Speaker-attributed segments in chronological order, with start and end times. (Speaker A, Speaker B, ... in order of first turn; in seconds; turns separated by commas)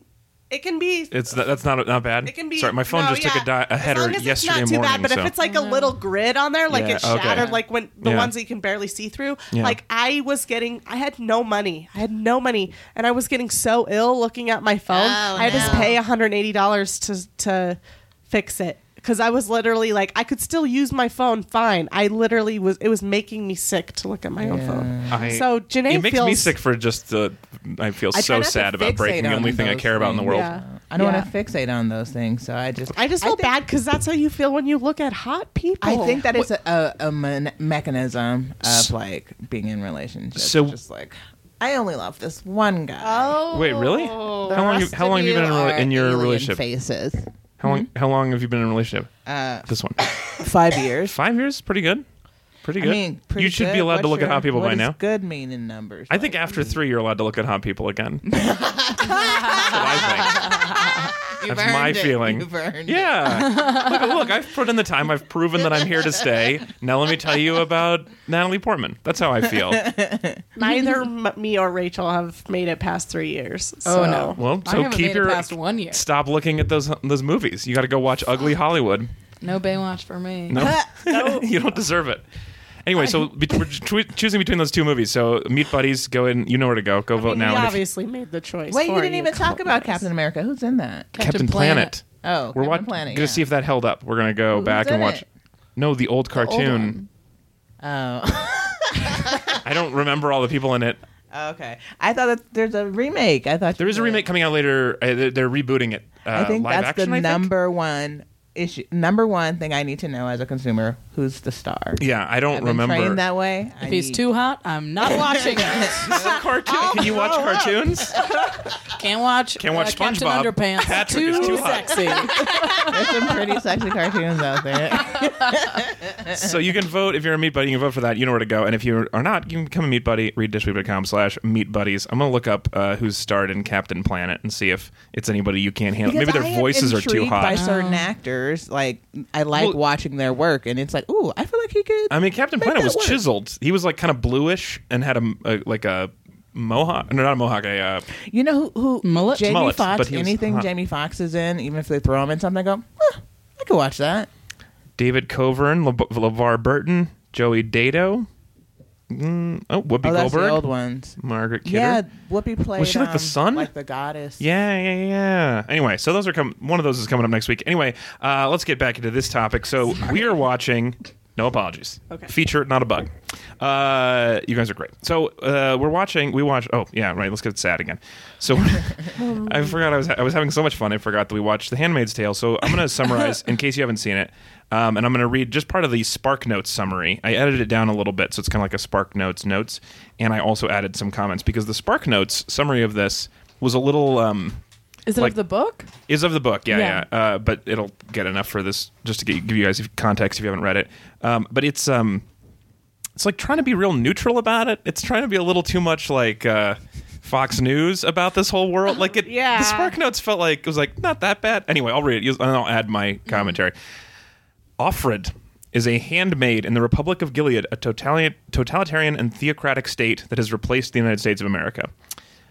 Speaker A: 0.5-1.5, Speaker B: 1.1-5.3, Speaker A: 2.2-26.6, Speaker C: 5.4-6.0, Speaker B: 6.7-8.3, Speaker D: 7.1-7.5, Speaker B: 9.5-9.8, Speaker D: 14.9-16.0, Speaker B: 15.4-15.9, Speaker D: 24.4-25.3, Speaker B: 25.1-30.5, Speaker D: 28.1-33.5, Speaker A: 30.2-31.2, Speaker C: 31.0-31.3, Speaker A: 32.9-36.3, Speaker D: 35.8-43.4, Speaker B: 40.3-40.8, Speaker A: 43.0-44.6, Speaker B: 43.5-46.6, Speaker D: 44.4-47.8, Speaker B: 47.6-49.1, Speaker D: 49.2-51.1, Speaker B: 49.7-50.0, Speaker B: 51.1-52.0, Speaker B: 52.6-55.0, Speaker D: 52.8-56.8, Speaker B: 56.1-58.3, Speaker D: 58.2-63.5, Speaker B: 59.5-60.5, Speaker B: 61.4-69.9, Speaker D: 69.5-70.4, Speaker A: 70.5-74.4, Speaker C: 70.6-71.0, Speaker C: 73.8-76.0, Speaker B: 74.3-79.1, Speaker C: 79.4-80.7, Speaker B: 80.5-82.2, Speaker A: 80.5-81.5, Speaker B: 82.8-87.8, Speaker A: 87.1-90.0, Speaker D: 88.7-91.1, Speaker C: 91.1-91.9, Speaker B: 91.2-92.0, Speaker D: 92.2-93.5, Speaker B: 92.5-95.2, Speaker D: 94.5-95.2, Speaker B: 95.8-97.0, Speaker C: 96.3-97.1, Speaker D: 97.8-99.6, Speaker B: 99.6-101.0, Speaker D: 101.3-104.2, Speaker B: 103.8-107.5, Speaker D: 106.3-114.2, Speaker B: 112.0-113.2, Speaker C: 113.8-116.3, Speaker D: 115.0-115.9, Speaker B: 115.8-118.2, Speaker A: 116.7-117.7, Speaker C: 118.9-123.4, Speaker B: 119.6-122.1, Speaker D: 121.2-122.1, Speaker D: 122.8-126.6, Speaker B: 126.3-137.6, Speaker D: 136.0-143.2, Speaker C: 137.5-138.1, Speaker B: 142.1-148.1, Speaker D: 148.2-154.3, Speaker C: 149.0-149.6, Speaker B: 149.4-150.7, Speaker B: 155.0-158.3, Speaker B: 159.1-160.6, Speaker D: 160.0-164.4, Speaker B: 161.2-162.0, Speaker B: 162.8-163.7, Speaker B: 164.4-194.6, Speaker A: 179.2-179.8, Speaker C: 195.1-195.9, Speaker B: 196.1-202.2, Speaker C: 196.7-197.1, Speaker B: 203.2-213.8, Speaker A: 209.0-209.9, Speaker C: 213.3-213.5, Speaker B: 214.8-221.9